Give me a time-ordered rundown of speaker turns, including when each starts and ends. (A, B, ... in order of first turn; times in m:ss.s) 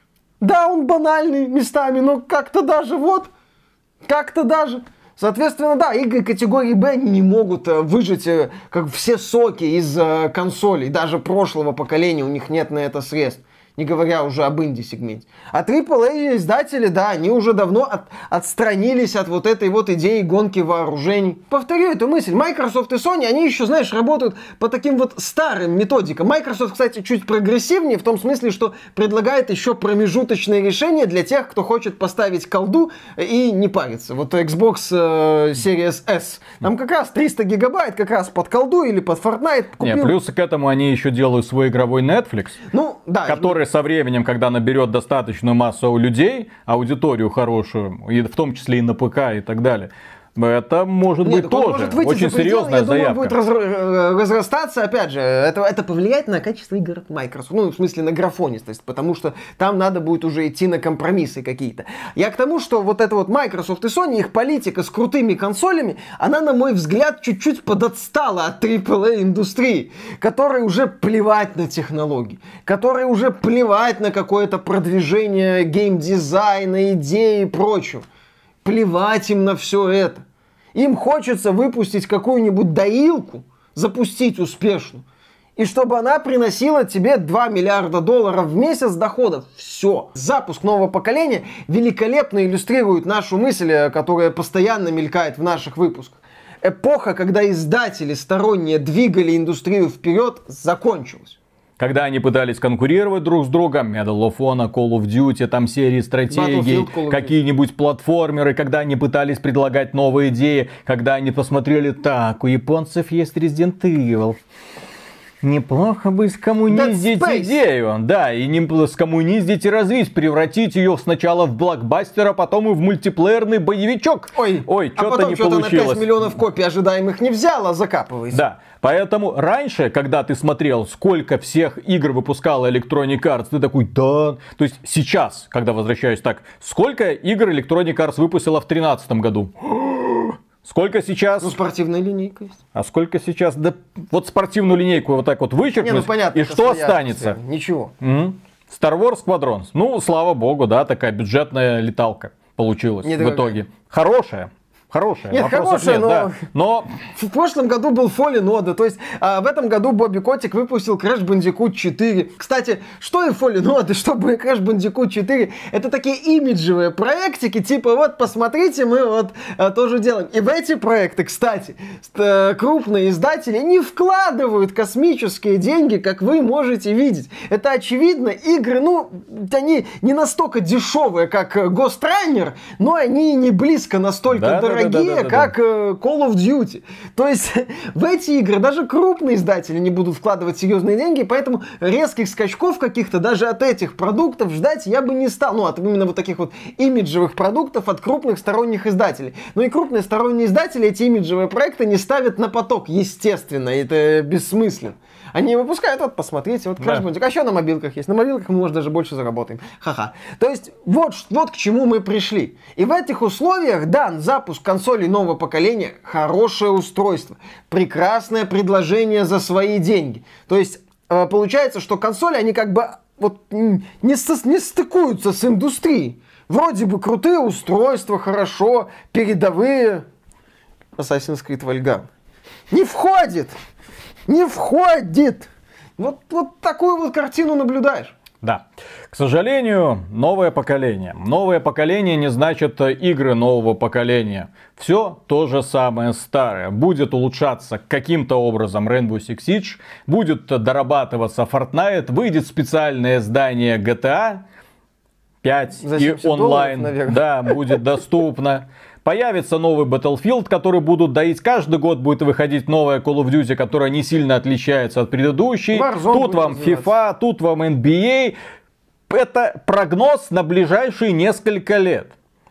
0:00.4-0:03.3 A
0:04.0-0:40.1 A
0:39.8-0:42.6 B
0:42.7-0:43.6 A
0:43.3-0:53.4 B
0:51.2-1:18.0 A
1:18.6-1:20.2 A
1:20.8-1:25.0 A
1:25.6-1:41.4 A
1:41.8-1:54.4 B
1:46.3-1:47.4 A
1:55.4-2:06.2 B
1:56.7-1:57.6 A
2:04.3-2:08.4 A
2:08.3-2:21.6 B
2:21.4-2:22.6 A
2:22.7-2:27.4 B
2:25.8-2:27.9 A
2:28.0-2:37.0 B
2:33.0-2:33.6 A
2:35.3-2:36.5 A
2:37.2-3:50.0 A
3:04.3-3:05.5 B
3:26.8-3:27.1 B
3:51.0-3:52.1 A
3:52.7-3:53.5 A
3:54.3-3:58.2 A
3:58.4-4:14.4 B
4:15.4-4:28.4 B
4:15.8-4:17.8 A
4:25.7-4:26.9 A
4:29.1-4:32.1 B